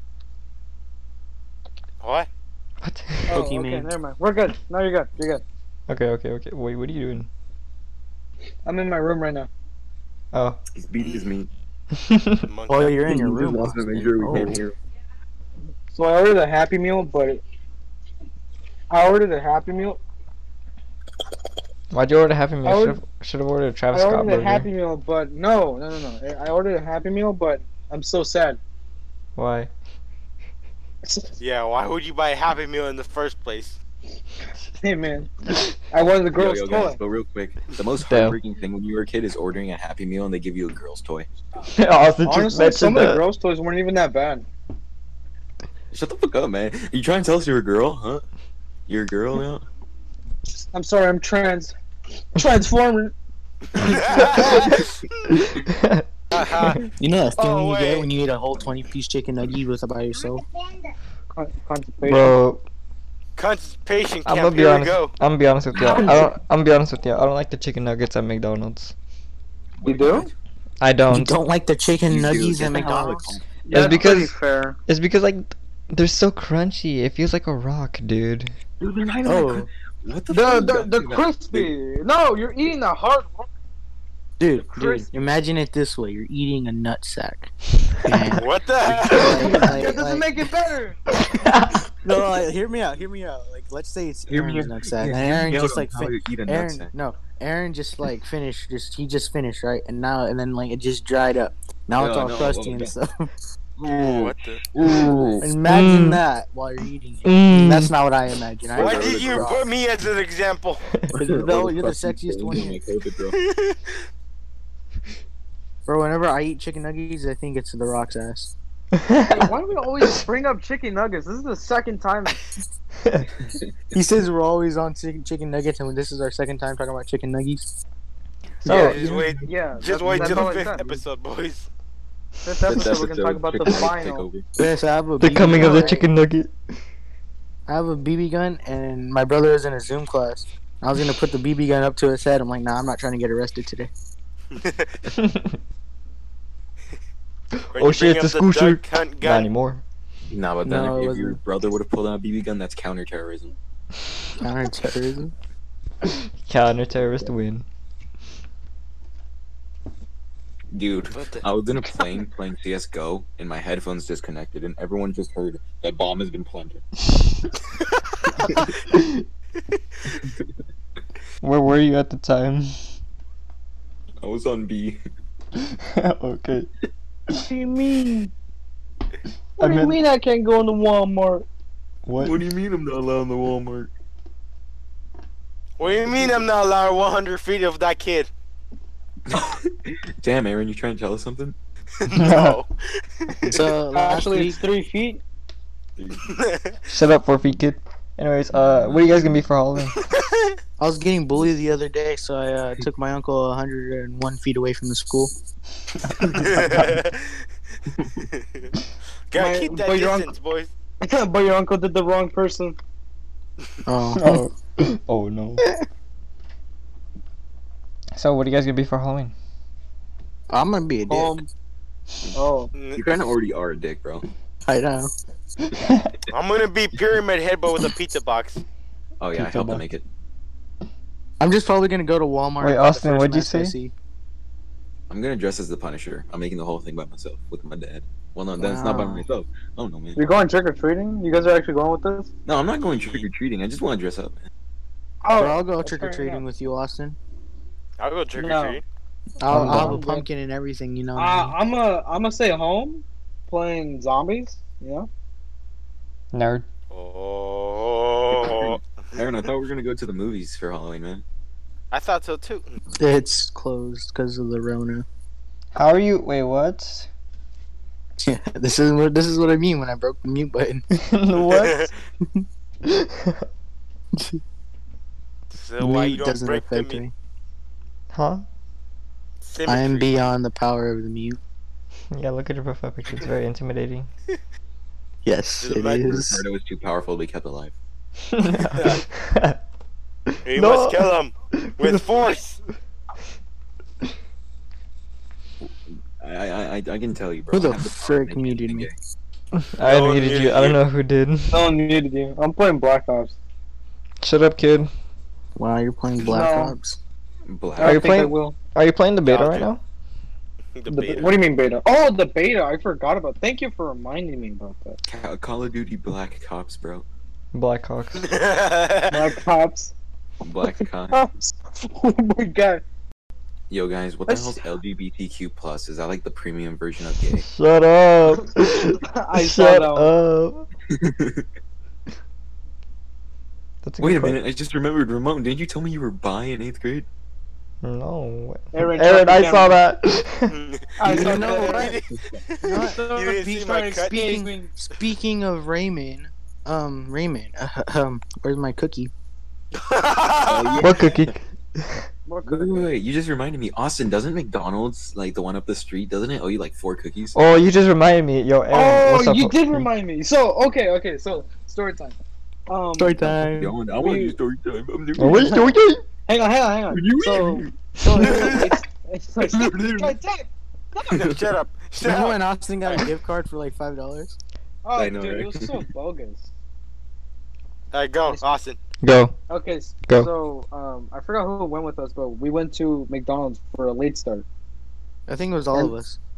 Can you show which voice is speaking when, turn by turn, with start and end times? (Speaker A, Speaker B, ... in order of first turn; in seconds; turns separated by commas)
Speaker A: 2.0-2.3, Speaker B: 2.8-3.4, Speaker C: 3.3-5.4, Speaker D: 3.3-3.9, Speaker B: 5.9-7.3, Speaker C: 8.6-9.5, Speaker B: 10.3-10.6, Speaker E: 10.8-11.5, Speaker A: 11.0-11.3, Speaker B: 11.9-12.4, Speaker A: 12.5-12.9, Speaker D: 12.7-14.6, Speaker E: 12.9-14.8, Speaker C: 15.9-17.4, Speaker C: 18.9-20.0, Speaker B: 21.9-24.7, Speaker C: 22.6-23.0, Speaker C: 23.9-28.6, Speaker B: 29.4-29.7, Speaker C: 31.0-31.3, Speaker A: 31.4-33.8, Speaker C: 34.8-35.3, Speaker C: 35.9-37.0, Speaker E: 36.3-41.3, Speaker B: 38.0-38.4, Speaker B: 41.7-43.2, Speaker C: 42.2-44.5, Speaker E: 45.9-48.2, Speaker E: 48.9-49.6, Speaker C: 50.7-51.7, Speaker C: 52.4-53.1, Speaker A: 53.8-54.9, Speaker C: 54.1-54.7, Speaker B: 54.3-54.7, Speaker B: 55.3-56.8, Speaker A: 56.3-56.8, Speaker D: 57.0-60.4, Speaker A: 57.4-58.1, Speaker C: 61.3-62.3, Speaker B: 62.0-62.6, Speaker A: 63.4-65.1, Speaker B: 64.2-68.9, Speaker C: 65.8-66.3, Speaker E: 65.9-66.2, Speaker E: 69.8-70.3, Speaker C: 69.8-70.3, Speaker B: 70.8-71.3, Speaker D: 71.1-73.3, Speaker E: 72.0-74.1, Speaker C: 73.7-74.8, Speaker B: 73.7-74.3, Speaker B: 74.9-78.5, Speaker E: 78.8-81.7, Speaker D: 79.2-79.7, Speaker C: 80.3-83.5, Speaker D: 84.4-87.5, Speaker C: 84.6-85.1, Speaker D: 88.0-90.3, Speaker A: 88.3-89.6, Speaker C: 89.3-91.0, Speaker B: 91.2-91.8, Speaker D: 92.0-103.3, Speaker E: 94.3-96.9, Speaker E: 102.0-102.9, Speaker E: 103.8-105.5, Speaker A: 104.0-104.6, Speaker D: 105.4-109.7, Speaker B: 105.6-106.2, Speaker B: 107.2-107.9, Speaker E: 108.7-109.6, Speaker A: 108.8-110.8, Speaker E: 111.1-113.4, Speaker D: 111.2-112.8, Speaker A: 113.3-114.0, Speaker D: 115.9-118.5, Speaker B: 119.0-119.5, Speaker C: 119.2-122.4, Speaker B: 123.0-123.3, Speaker E: 123.4-123.6, Speaker D: 123.9-127.8, Speaker B: 128.6-129.0, Speaker A: 128.6-131.7, Speaker E: 128.6-129.5, Speaker C: 129.4-131.0, Speaker E: 130.2-130.4, Speaker C: 132.4-134.3, Speaker E: 132.6-134.4, Speaker D: 134.6-136.1, Speaker B: 135.2-136.5, Speaker D: 137.7-143.9, Speaker A: 144.6-144.9, Speaker B: 145.1-145.6, Speaker B: 147.7-149.8, Speaker A: 147.7-149.5, Speaker E: 150.3-153.5, Speaker D: 150.6-151.4, Speaker D: 154.4-155.3, Speaker B: 156.0-157.6, Speaker E: 160.7-166.8, Speaker B: 168.9-169.2, Speaker B: 171.4-172.9, Speaker E: 174.2-175.0, Speaker B: 175.6-176.7, Speaker C: 177.3-178.3, Speaker B: 179.6-180.0, Speaker C: 179.6-181.4, Speaker B: 182.1-182.4, Speaker E: 182.2-183.9, Speaker A: 185.8-188.3, Speaker E: 185.8-186.4, Speaker E: 189.3-191.6, Speaker A: 192.0-192.7, Speaker B: 192.1-192.6, Speaker A: 193.2-193.6, Speaker D: 193.4-194.6, Speaker C: 193.9-195.2, Speaker E: 196.0-196.3, Speaker A: 196.3-196.7, Speaker B: 196.9-199.9, Speaker E: 198.5-199.3, Speaker A: 200.0-200.5, Speaker D: 200.8-205.3, Speaker E: 206.1-206.5, Speaker A: 206.3-207.4, Speaker A: 208.3-208.7, Speaker A: 209.3-210.7, Speaker C: 209.3-210.3, Speaker C: 211.0-212.8, Speaker D: 213.8-214.4, Speaker B: 214.2-215.6, Speaker B: 218.1-219.3, Speaker D: 220.5-221.4, Speaker C: 221.1-221.5, Speaker C: 222.3-222.7, Speaker A: 222.8-223.1, Speaker E: 222.9-224.3, Speaker D: 224.7-225.1, Speaker B: 225.7-226.1, Speaker A: 226.3-228.6, Speaker E: 229.2-230.0, Speaker D: 229.4-229.8, Speaker D: 231.4-233.9, Speaker B: 232.6-233.7, Speaker E: 235.1-240.2, Speaker D: 238.6-239.2, Speaker C: 240.2-242.3, Speaker E: 242.4-244.5, Speaker A: 242.8-243.2, Speaker C: 245.2-246.4, Speaker D: 245.3-247.2, Speaker A: 248.0-248.8, Speaker C: 248.4-248.8, Speaker D: 249.4-251.6, Speaker B: 249.5-250.0, Speaker C: 249.5-250.3, Speaker C: 251.1-255.1, Speaker B: 256.3-256.6, Speaker A: 256.9-258.8, Speaker E: 258.3-261.2, Speaker A: 261.9-262.8, Speaker D: 263.0-265.1, Speaker B: 265.7-267.1, Speaker D: 268.2-270.8, Speaker B: 270.9-271.9, Speaker A: 271.4-271.9, Speaker B: 272.8-273.4, Speaker D: 274.1-274.4, Speaker A: 275.5-277.0, Speaker D: 275.8-277.1, Speaker B: 278.1-278.4, Speaker A: 279.4-280.2, Speaker D: 279.6-281.4, Speaker B: 282.1-284.1, Speaker D: 285.2-286.4, Speaker A: 285.6-286.0, Speaker E: 286.0-287.8, Speaker B: 288.3-289.6, Speaker B: 290.3-292.2, Speaker A: 290.4-292.6, Speaker E: 295.6-298.9, Speaker D: 297.5-298.9, Speaker B: 299.5-301.7, Speaker A: 299.8-300.8, Speaker C: 301.5-303.3, Speaker B: 304.2-304.9, Speaker D: 305.6-307.0, Speaker C: 306.2-306.8, Speaker E: 307.5-308.3, Speaker C: 307.8-308.6, Speaker B: 307.8-309.8, Speaker A: 309.2-309.7, Speaker A: 310.8-311.4, Speaker C: 310.9-315.0, Speaker E: 315.0-317.1, Speaker B: 317.5-318.3, Speaker A: 318.2-319.3, Speaker C: 319.1-319.9, Speaker E: 320.4-321.2, Speaker C: 321.1-322.8, Speaker E: 323.7-327.4, Speaker C: 324.3-324.6, Speaker B: 327.4-330.6, Speaker C: 329.0-330.1, Speaker E: 330.9-331.4, Speaker B: 333.8-334.4, Speaker E: 334.0-337.1, Speaker B: 337.8-340.6, Speaker C: 338.7-339.8, Speaker A: 340.5-344.2, Speaker C: 341.0-341.9, Speaker D: 341.0-342.0, Speaker E: 341.0-341.4, Speaker E: 342.0-342.4, Speaker D: 342.6-343.0, Speaker C: 342.6-344.7, Speaker D: 343.8-349.1, Speaker A: 349.7-350.9, Speaker E: 350.4-351.3, Speaker B: 350.8-352.0, Speaker C: 352.2-352.9, Speaker E: 352.4-357.4, Speaker B: 357.3-359.9, Speaker C: 358.7-362.2, Speaker C: 362.7-363.2, Speaker D: 363.0-363.7, Speaker E: 363.3-365.8, Speaker C: 363.9-364.4, Speaker B: 365.2-366.0, Speaker C: 366.2-371.0, Speaker E: 366.9-368.8, Speaker E: 369.4-370.2, Speaker E: 371.1-371.5, Speaker A: 371.1-373.0, Speaker D: 372.0-374.4, Speaker C: 374.8-376.5, Speaker E: 374.9-375.9, Speaker A: 377.9-378.8, Speaker B: 379.0-379.4, Speaker C: 379.5-384.4, Speaker D: 385.3-386.2